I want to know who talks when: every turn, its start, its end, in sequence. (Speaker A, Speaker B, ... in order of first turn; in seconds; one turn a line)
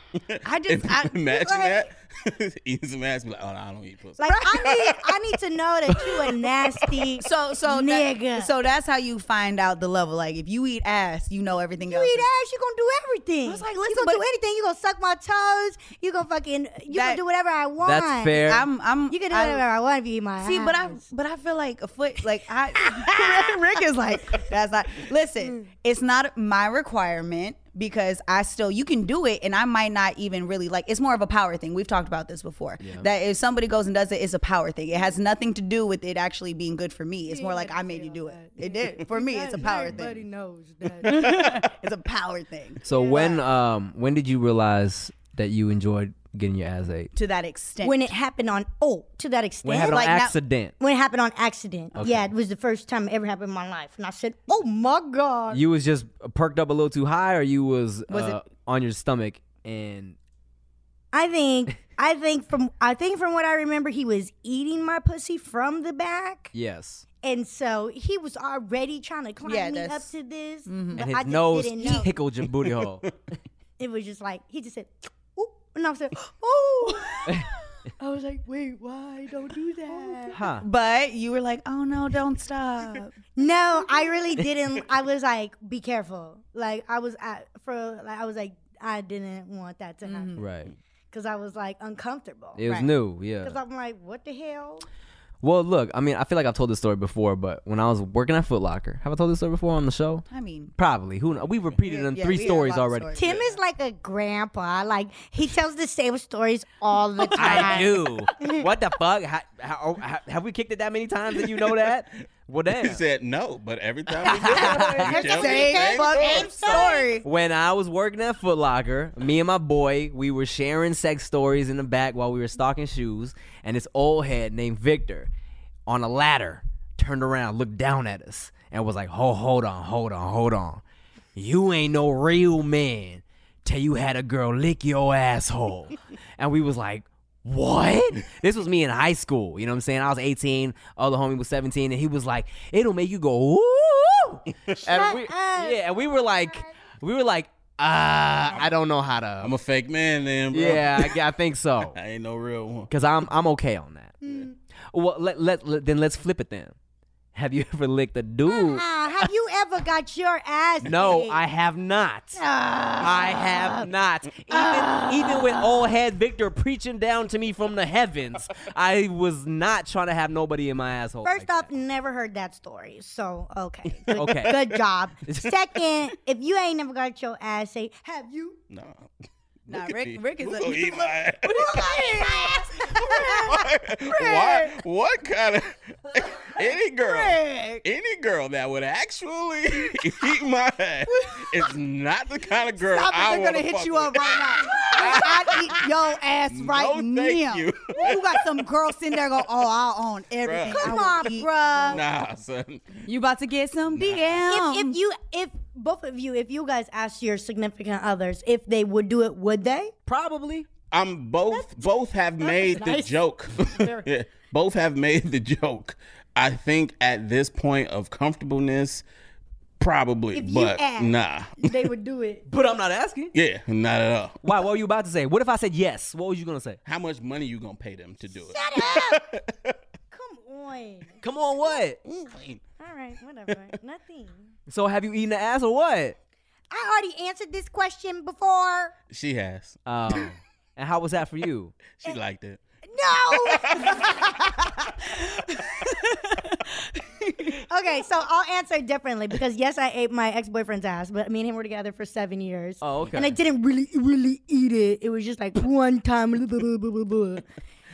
Speaker A: 0.2-4.9
Speaker B: 0.5-1.9
Speaker C: 4.2-8.5
Speaker B: 4.2-5.0
Speaker B: 7.2-12.3
Speaker C: 11.8-18.4
Speaker B: 13.4-14.2
Speaker B: 16.9-17.2
Speaker D: 17.8-18.6
Speaker B: 18.4-19.6
Speaker C: 19.1-21.0
Speaker B: 20.4-40.2
Speaker C: 22.8-23.6
Speaker D: 32.8-33.1
Speaker C: 37.3-41.5
Speaker B: 41.0-43.4
Speaker D: 42.8-47.1
Speaker C: 42.9-43.4
Speaker B: 47.1-48.1
Speaker C: 47.8-50.1
Speaker D: 49.6-50.7
Speaker B: 49.8-50.4
Speaker C: 50.8-55.6
Speaker D: 52.0-52.3
Speaker D: 55.5-60.2
Speaker B: 58.1-58.4
Speaker C: 61.1-66.5
Speaker D: 66.5-67.0
Speaker C: 67.2-72.1
Speaker B: 69.4-70.1
Speaker B: 70.7-71.0
Speaker D: 71.0-73.1
Speaker C: 73.8-77.5
Speaker C: 78.0-80.4
Speaker B: 79.9-83.2
Speaker D: 80.3-80.6
Speaker C: 83.4-90.4
Speaker B: 90.0-90.4
Speaker D: 90.4-90.7
Speaker C: 91.1-92.6
Speaker D: 92.6-93.6
Speaker C: 93.4-94.9
Speaker D: 95.4-100.2
Speaker B: 100.3-100.7
Speaker D: 100.8-103.2
Speaker B: 101.8-103.5
Speaker C: 103.2-108.7
Speaker B: 107.2-107.8
Speaker D: 107.3-113.0
Speaker A: 112.7-116.8
Speaker B: 114.2-117.2
Speaker D: 114.3-115.1
Speaker C: 114.3-117.2
Speaker D: 117.2-125.3
Speaker D: 125.9-130.8
Speaker D: 131.4-149.5
Speaker C: 144.7-146.7
Speaker A: 149.4-151.2
Speaker D: 150.5-152.0
Speaker A: 151.9-152.9
Speaker D: 152.9-154.2
Speaker C: 154.2-154.5
Speaker D: 154.9-156.8
Speaker D: 157.3-159.3
Speaker C: 158.5-161.4
Speaker D: 160.8-162.4
Speaker C: 162.3-163.9
Speaker D: 163.0-171.7
Speaker C: 164.5-165.7
Speaker C: 171.2-178.6
Speaker D: 174.1-175.5
Speaker A: 178.7-179.1
Speaker A: 179.7-181.8
Speaker B: 179.7-183.0
Speaker C: 181.5-184.7
Speaker A: 182.8-195.8
Speaker C: 187.2-187.6
Speaker B: 192.8-202.0
Speaker C: 194.3-195.8
Speaker A: 196.5-198.4
Speaker A: 200.4-201.0
Speaker C: 200.7-202.0
Speaker A: 201.9-203.1
Speaker B: 203.1-205.0
Speaker A: 203.9-204.4
Speaker C: 204.5-209.9
Speaker D: 210.1-210.7
Speaker A: 210.9-219.0
Speaker C: 211.5-211.9
Speaker C: 212.4-214.1
Speaker A: 219.8-221.9
Speaker C: 220.3-222.4
Speaker D: 222.5-223.3
Speaker A: 223.3-224.4
Speaker D: 224.4-226.8
Speaker A: 226.8-229.8
Speaker C: 228.5-229.3
Speaker C: 230.1-231.2
Speaker D: 231.2-232.0
Speaker A: 232.1-232.6
Speaker C: 232.8-234.5
Speaker D: 234.7-236.2
Speaker C: 236.7-238.9
Speaker A: 239.1-239.8
Speaker D: 239.9-241.8
Speaker A: 242.0-242.6
Speaker C: 242.9-245.1
Speaker A: 243.3-244.1
Speaker B: 245.8-246.3
Speaker B: 247.2-247.5
Speaker C: 247.5-257.5
Speaker D: 252.8-253.4